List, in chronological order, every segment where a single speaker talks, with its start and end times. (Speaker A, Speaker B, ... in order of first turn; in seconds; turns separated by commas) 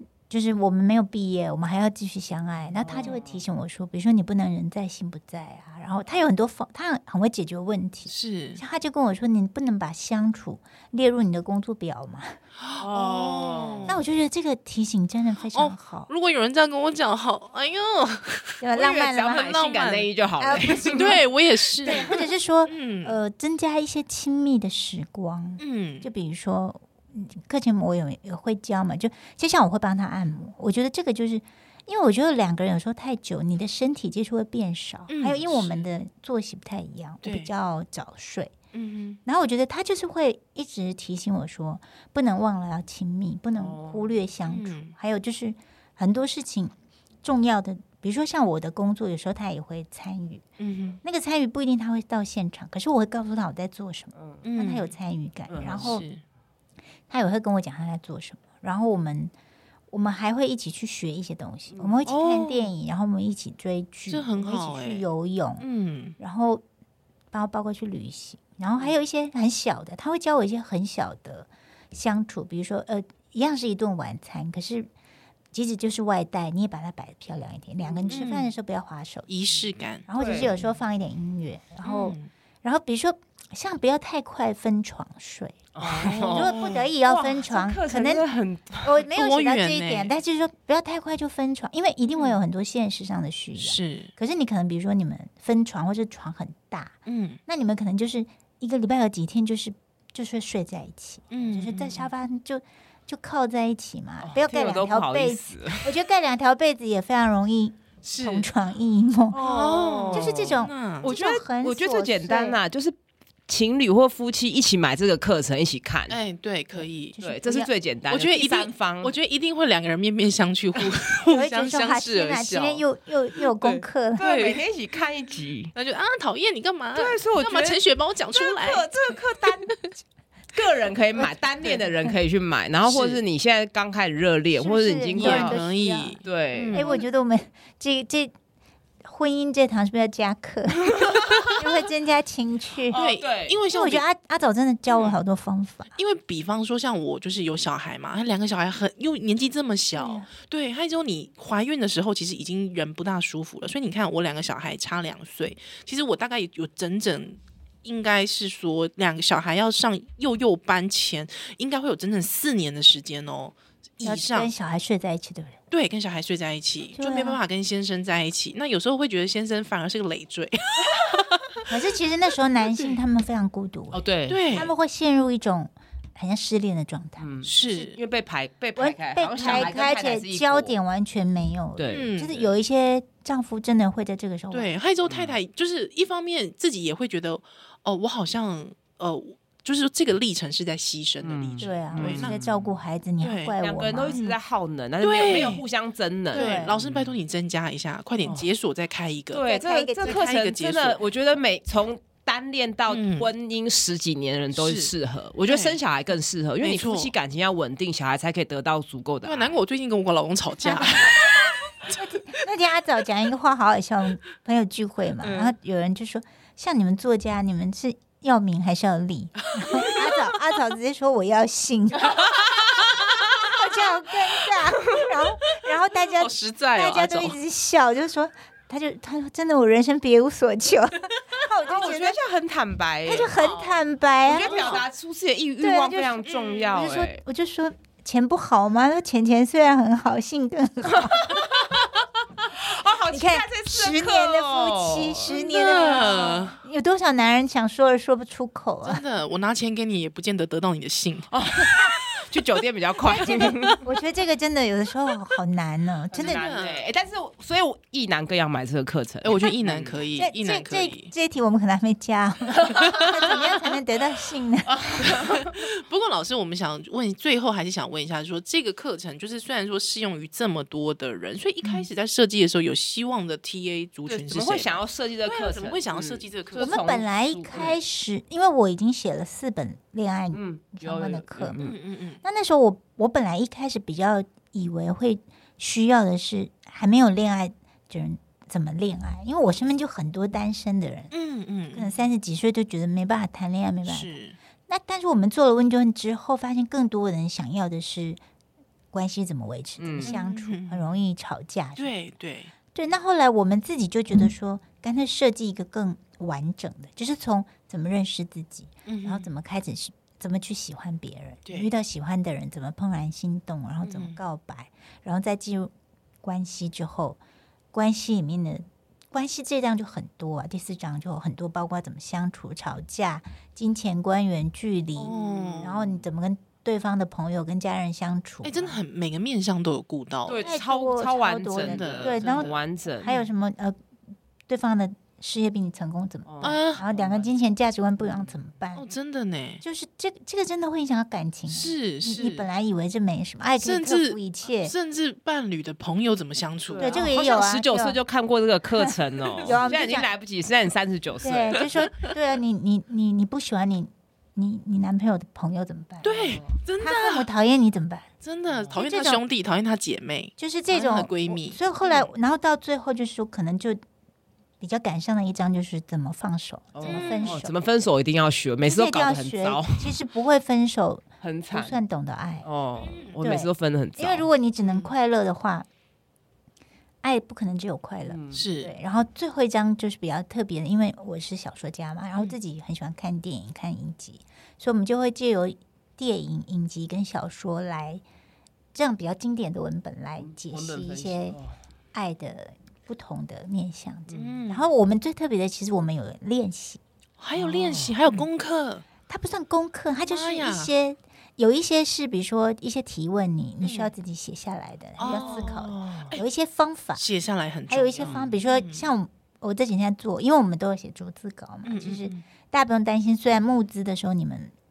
Speaker A: 0.3-12.4, Speaker B: 2.8-3.4, Speaker C: 8.1-8.6, Speaker C: 12.6-14.0, Speaker B: 12.8-13.9, Speaker A: 13.9-16.1, Speaker C: 15.5-18.6, Speaker A: 18.6-19.5, Speaker B: 18.7-21.2, Speaker C: 19.4-20.1, Speaker A: 20.4-21.2, Speaker C: 20.9-22.1, Speaker A: 21.8-38.5, Speaker B: 21.9-22.2, Speaker C: 22.7-23.2, Speaker C: 25.6-26.1, Speaker C: 35.1-35.8, Speaker C: 37.2-37.5, Speaker C: 38.7-39.2, Speaker A: 39.2-50.4, Speaker B: 43.6-44.1, Speaker C: 44.5-45.0, Speaker C: 50.6-51.0, Speaker A: 51.0-56.0, Speaker B: 54.1-54.4, Speaker C: 54.4-54.9, Speaker B: 55.5-56.0, Speaker C: 55.7-56.2, Speaker A: 57.1-59.3, Speaker A: 59.9-65.7, Speaker B: 61.7-62.0, Speaker C: 62.1-62.7, Speaker C: 64.1-65.1, Speaker C: 65.6-66.2, Speaker A: 66.2-66.6, Speaker A: 67.3-74.9, Speaker A: 75.5-79.3, Speaker B: 77.8-78.2, Speaker C: 78.1-78.5, Speaker C: 79.3-80.6, Speaker A: 80.1-88.3, Speaker B: 80.2-80.5, Speaker C: 81.8-82.3, Speaker B: 85.8-89.0, Speaker C: 85.8-86.9, Speaker A: 88.8-109.4, Speaker C: 89.1-90.1, Speaker C: 92.1-92.4, Speaker C: 93.6-94.1, Speaker C: 97.1-97.4, Speaker C: 101.3-102.1, Speaker B: 104.2-105.9, Speaker C: 108.0-108.5, Speaker B: 109.3-112.9, Speaker C: 109.3-111.1, Speaker A: 110.1-112.6, Speaker B: 113.5-116.2, Speaker C: 116.1-117.2, Speaker A: 116.8-117.7, Speaker B: 117.2-119.1, Speaker C: 118.1-122.8, Speaker A: 121.3-124.3, Speaker B: 123.6-125.7, Speaker C: 124.2-124.6, Speaker C: 125.7-129.1, Speaker B: 127.0-129.8, Speaker B: 130.5-135.6, Speaker C: 132.8-133.2, Speaker A: 134.6-136.2, Speaker C: 135.1-137.0, Speaker B: 136.2-137.0, Speaker A: 136.7-138.3, Speaker A: 139.0-143.0, Speaker B: 141.0-141.6, Speaker B: 142.9-143.6, Speaker C: 142.9-144.1, Speaker A: 143.7-145.9, Speaker C: 144.9-145.2, Speaker C: 146.0-164.5, Speaker A: 149.9-150.3, Speaker A: 164.0-165.6, Speaker C: 165.7-171.6, Speaker A: 166.9-167.4, Speaker A: 171.7-177.3, Speaker C: 172.7-172.9, Speaker B: 173.9-174.6, Speaker C: 174.3-174.7, Speaker B: 177.2-180.7, Speaker C: 177.4-178.0, Speaker A: 178.8-184.7, Speaker B: 181.8-182.1, Speaker C: 181.9-182.5, Speaker C: 184.5-192.4, Speaker B: 185.1-185.4, Speaker B: 191.2-192.7, Speaker A: 191.6-194.2, Speaker C: 193.2-193.6, Speaker B: 193.6-197.2, Speaker C: 195.0-195.6, Speaker A: 196.3-196.8, Speaker C: 196.3-199.4, Speaker B: 199.3-209.6, Speaker A: 199.4-200.2, Speaker C: 200.0-201.0, Speaker C: 202.9-203.3, Speaker C: 204.5-204.9, Speaker C: 205.5-205.8, Speaker C: 206.6-207.1, Speaker C: 209.2-211.3, Speaker A: 210.6-211.2, Speaker A: 211.9-222.4, Speaker B: 215.2-215.5, Speaker B: 222.2-223.2, Speaker A: 223.4-232.2, Speaker C: 226.0-227.4, Speaker B: 231.6-233.4, Speaker A: 233.1-234.8, Speaker C: 233.4-233.8, Speaker B: 234.2-237.2, Speaker C: 234.4-234.8, Speaker A: 235.6-241.4, Speaker C: 236.2-236.8, Speaker B: 240.9-245.4, Speaker A: 243.1-249.0, Speaker C: 245.3-246.6, Speaker C: 248.8-251.3, Speaker B: 251.3-253.8, Speaker A: 253.1-256.5, Speaker B: 256.1-260.0, Speaker C: 256.2-256.9, Speaker C: 259.2-261.1, Speaker A: 260.2-264.8, Speaker B: 262.6-263.5, Speaker B: 264.7-265.5, Speaker C: 265.1-276.8, Speaker B: 274.1-277.8, Speaker A: 276.6-281.6, Speaker B: 280.3-281.8, Speaker C: 281.6-282.2, Speaker A: 282.2-291.1, Speaker C: 291.1-292.0, Speaker A: 291.7-294.1, Speaker C: 293.9-294.4, Speaker A: 294.7-298.2, Speaker A: 298.9-301.9, Speaker B: 299.8-300.1, Speaker C: 300.0-300.9, Speaker C: 301.8-302.5, Speaker A: 302.7-315.7, Speaker C: 308.9-309.3, Speaker C: 313.8-314.2, Speaker A: 316.2-317.2, Speaker A: 317.7-328.8, Speaker C: 325.0-326.0, Speaker B: 325.2-325.7, Speaker C: 328.4-330.5, Speaker B: 330.3-333.1, Speaker A: 330.4-333.8, Speaker C: 331.6-333.3, Speaker A: 334.5-338.9, Speaker B: 336.3-337.3, Speaker C: 336.4-336.8, Speaker B: 338.0-338.4, Speaker C: 338.8-339.6, Speaker A: 339.6-344.7, Speaker C: 341.5-342.5, Speaker C: 343.6-347.1, Speaker B: 346.7-352.1, Speaker A: 346.8-348.0, Speaker A: 348.8-350.1, Speaker A: 351.2-358.1, Speaker C: 356.0-357.3, Speaker B: 356.2-356.6, Speaker C: 358.2-362.1, Speaker B: 358.5-358.8, Speaker A: 358.8-359.2, Speaker A: 360.4-363.8, Speaker A: 364.6-367.5, Speaker B: 366.8-370.0, Speaker C: 366.8-367.4, Speaker A: 368.7-372.5, Speaker B: 371.2-371.8, Speaker B: 372.4-374.3, Speaker C: 372.8-373.2, Speaker A: 373.2-375.7, Speaker C: 374.6-374.9, Speaker A: 377.0-388.0, Speaker B: 378.1-378.4, Speaker C: 378.3-378.7, Speaker A: 388.7-391.4, Speaker B: 390.2-391.6, Speaker A: 391.9-396.8, Speaker B: 394.1-394.4, Speaker C: 394.1-394.7, Speaker C: 397.2-398.8, Speaker B: 397.4-398.0, Speaker A: 399.1-407.0, Speaker C: 400.1-400.7, Speaker C: 403.6-403.9, Speaker C: 405.0-406.2, Speaker B: 405.0-405.5, Speaker C: 407.0-408.9, Speaker A: 407.7-414.5, Speaker B: 408.0-408.3, Speaker C: 411.7-412.2